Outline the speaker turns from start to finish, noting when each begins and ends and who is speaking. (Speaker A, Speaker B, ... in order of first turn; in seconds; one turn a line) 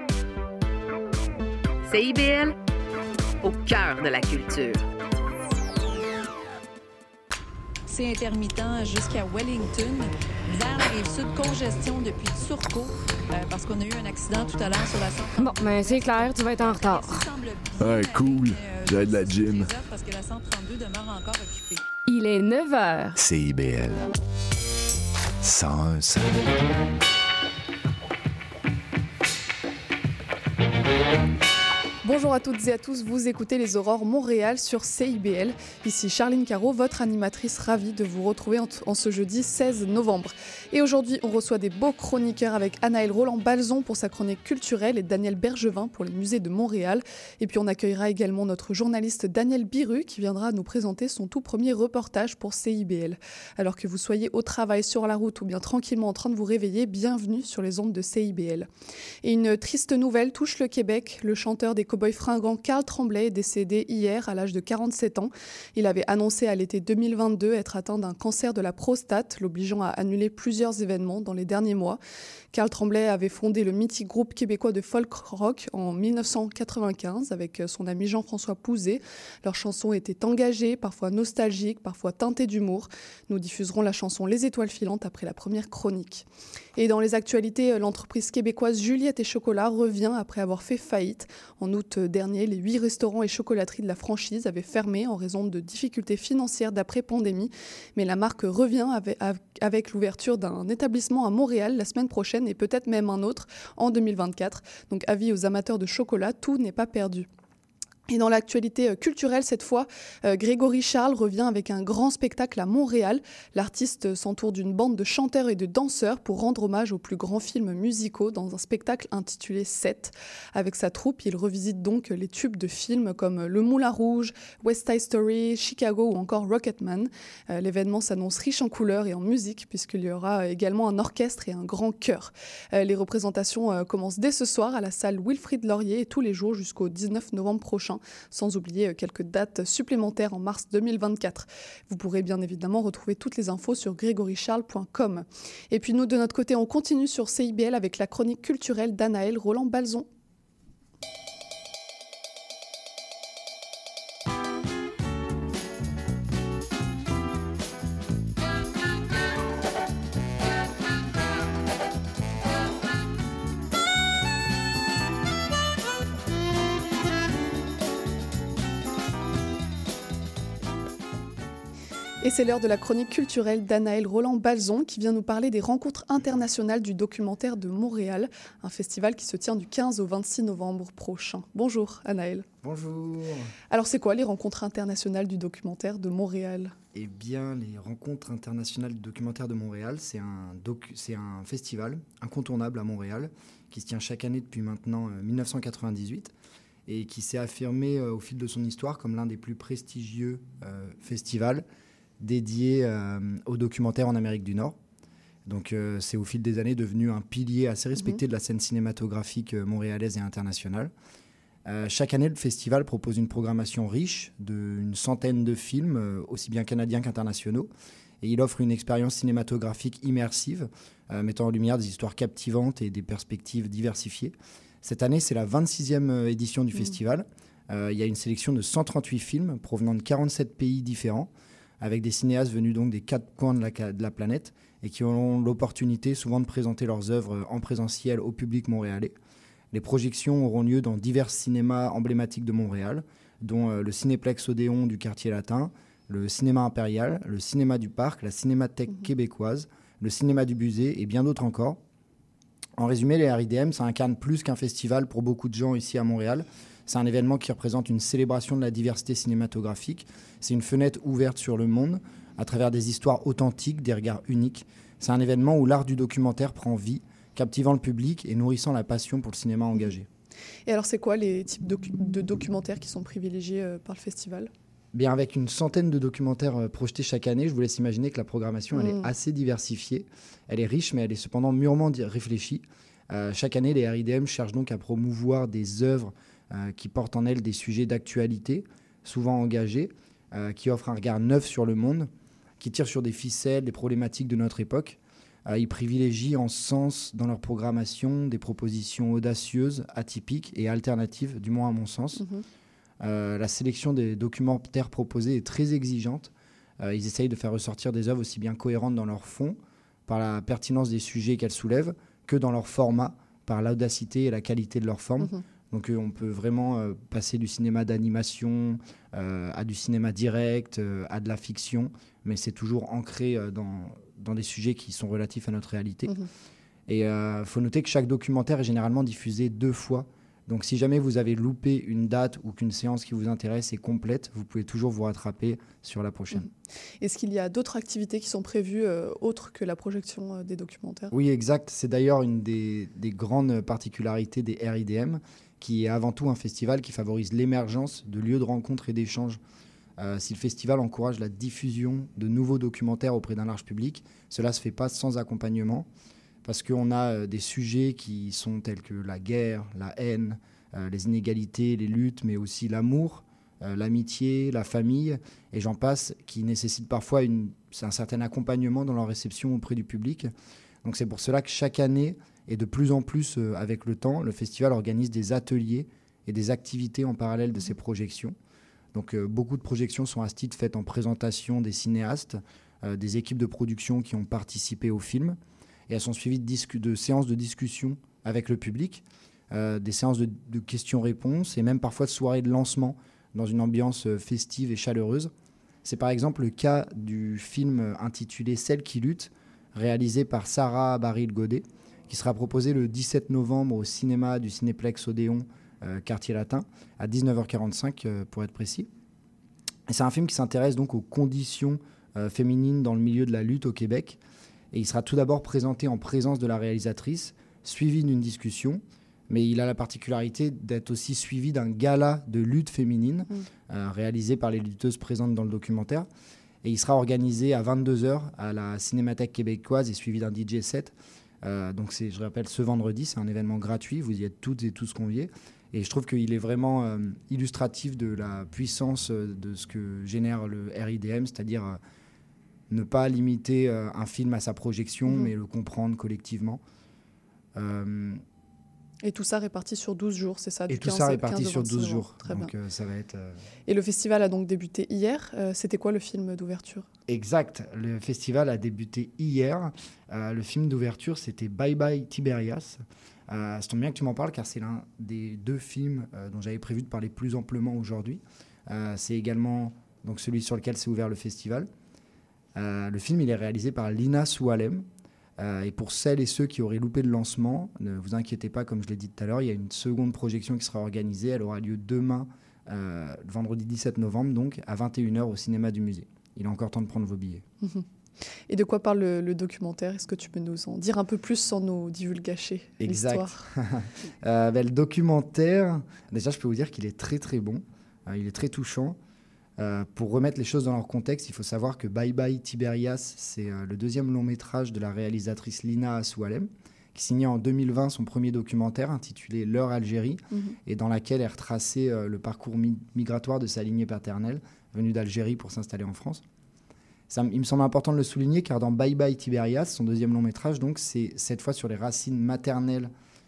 Speaker A: 1.9-2.5
Speaker A: 3.5-4.7
Speaker B: 7.9-21.9
Speaker A: 15.4-17.2
Speaker C: 17.8-19.7
Speaker A: 22.0-23.2
Speaker C: 23.2-24.1
Speaker C: 25.4-26.4
Speaker D: 32.0-58.7
Speaker D: 59.2-72.0
Speaker D: 72.5-107.3
Speaker D: 108.1-150.1
Speaker D: 172.2-182.4
Speaker E: 182.6-183.5
Speaker D: 183.7-186.7
Speaker E: 186.9-196.3
Speaker E: 196.9-201.6
Speaker E: 202.2-204.8
Speaker E: 205.4-210.9
Speaker E: 211.7-217.7
Speaker E: 218.2-239.1
Speaker E: 239.7-251.8
Speaker E: 252.8-270.1
Speaker D: 270.6-274.5
Speaker E: 274.9-302.2
Speaker D: 278.7-279.1
Speaker D: 302.1-302.4
Speaker E: 303.0-326.1
Speaker E: 326.9-336.5
Speaker D: 337.0-341.1
Speaker E: 341.1-349.4
Speaker E: 350.0-355.9
Speaker E: 356.4-370.3
Speaker E: 370.8-378.4
Speaker E: 378.9-395.3
Speaker E: 395.8-408.9
Speaker E: 409.9-414.2
Speaker E: 414.7-426.1
Speaker E: 426.6-441.8
Speaker E: 442.7-446.6
Speaker E: 447.5-448.2
Speaker D: 449.0-452.5
Speaker E: 450.7-453.4
Speaker D: 453.7-456.9
Speaker E: 457.1-471.7
Speaker E: 472.5-474.9
Speaker E: 475.4-487.4
Speaker D: 488.5-493.4
Speaker E: 492.8-499.0
Speaker E: 499.6-516.2
Speaker E: 517.1-522.9